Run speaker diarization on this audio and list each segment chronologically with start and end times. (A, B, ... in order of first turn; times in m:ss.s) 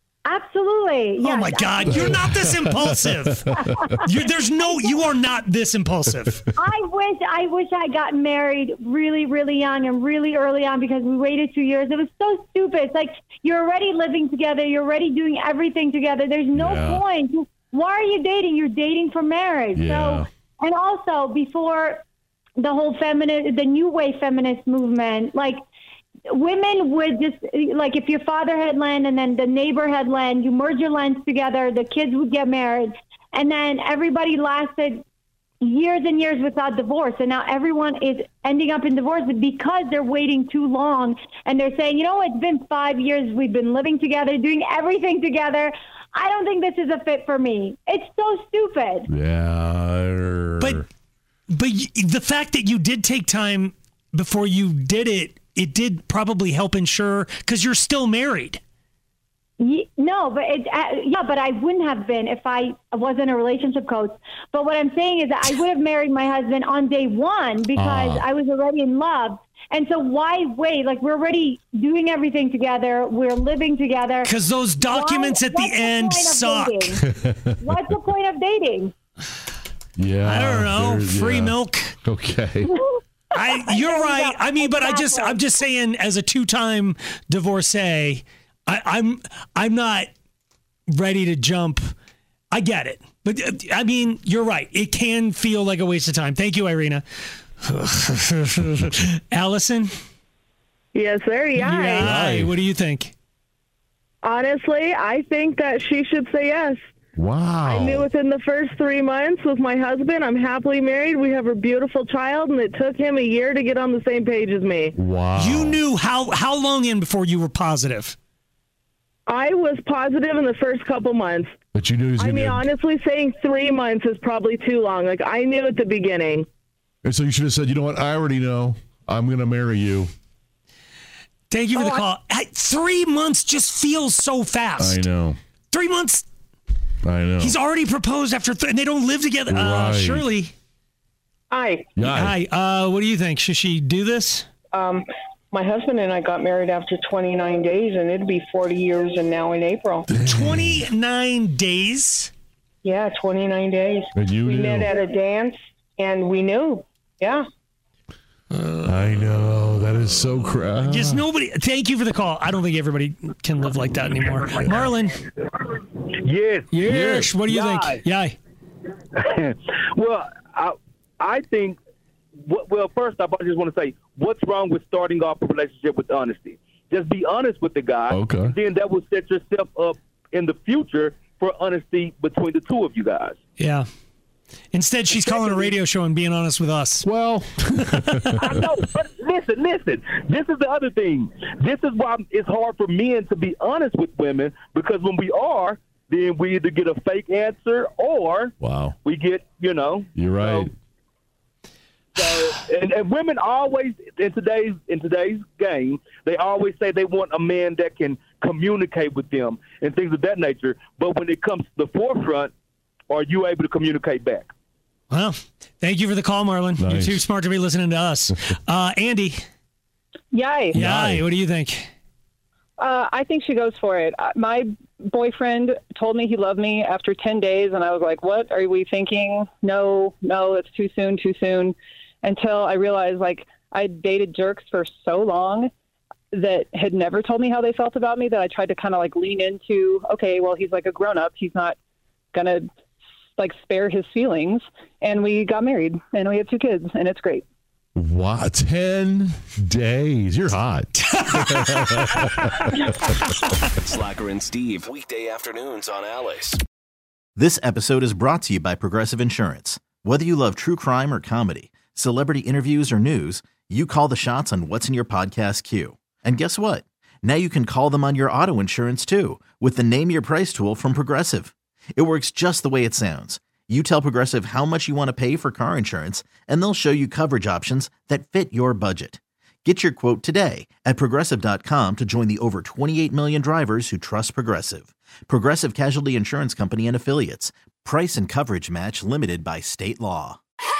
0:00.2-0:02.4 A
0:01.2-0:03.4 B
0:03.6-0:04.1 A
0:04.0-0:06.4 B
0:04.6-0:05.0 A
0:06.6-0:22.0 A
0:16.5-0:17.0 C
0:19.8-0:20.3 C
0:22.6-0:25.6 A
0:26.3-0:35.0 A
0:35.6-0:49.1 A
0:49.1-0:50.8 C
0:51.5-0:58.6 B
0:59.6-1:17.0 A
1:07.8-1:08.3 C
1:14.2-1:16.9 B
1:17.1-1:17.4 C
1:17.6-1:18.9 A
1:20.0-1:22.7 C
1:20.2-1:22.0 B
1:23.4-1:30.1 B
1:23.4-1:25.4 A
1:30.9-1:31.9 B
1:32.5-1:37.0 B
1:37.6-1:39.9 B
1:40.9-1:42.1 D
1:41.6-1:43.1 B
1:42.1-1:42.6 C
1:44.2-1:46.8 D
1:47.2-1:48.1 C
1:47.7-1:54.9 D
1:55.0-1:55.8 C
1:55.4-1:58.2 B
1:59.3-2:01.5 D
2:01.8-2:02.6 C
2:02.2-2:06.5 D
2:07.0-2:10.1 C
2:11.5-2:15.0 B
2:11.8-2:12.0 D
2:14.8-2:15.4 C
2:15.7-2:16.3 B
2:17.0-2:17.6 C
2:17.4-2:20.5 B
2:19.5-2:20.2 C
2:21.5-2:21.9 E
2:22.0-2:22.4 C
2:22.1-2:24.5 B
2:24.7-2:30.1 E
2:30.1-2:30.8 C
2:30.2-2:32.3 B
2:32.8-2:37.4 E
2:34.2-2:34.9 C
2:38.8-2:41.3 C
2:40.8-2:45.2 B
2:46.2-2:48.0 F
2:46.7-2:48.4 B
2:49.2-2:51.8 F
2:52.4-3:03.4 F
2:58.1-2:58.5 C
3:03.6-3:03.8 B
3:04.7-3:07.1 B
3:05.3-3:05.7 F
3:07.0-3:08.2 C
3:08.0-3:08.3 B
3:08.4-3:18.5 F
3:18.6-3:19.0 C
3:19.0-3:20.7 F
3:20.2-3:20.7 C
3:22.2-3:32.5 F
3:33.1-3:34.5 F
3:35.1-3:39.4 B
3:36.8-3:37.2 C
3:40.3-3:40.8 G
3:40.7-3:41.9 B
3:40.7-3:41.2 C
3:42.8-3:55.7 G
3:56.3-4:01.8 G
4:02.3-4:02.7 G
4:03.4-4:07.4 G
4:08.0-4:12.2 C
4:11.0-4:12.4 B
4:13.8-4:16.6 H
4:17.4-4:50.4 I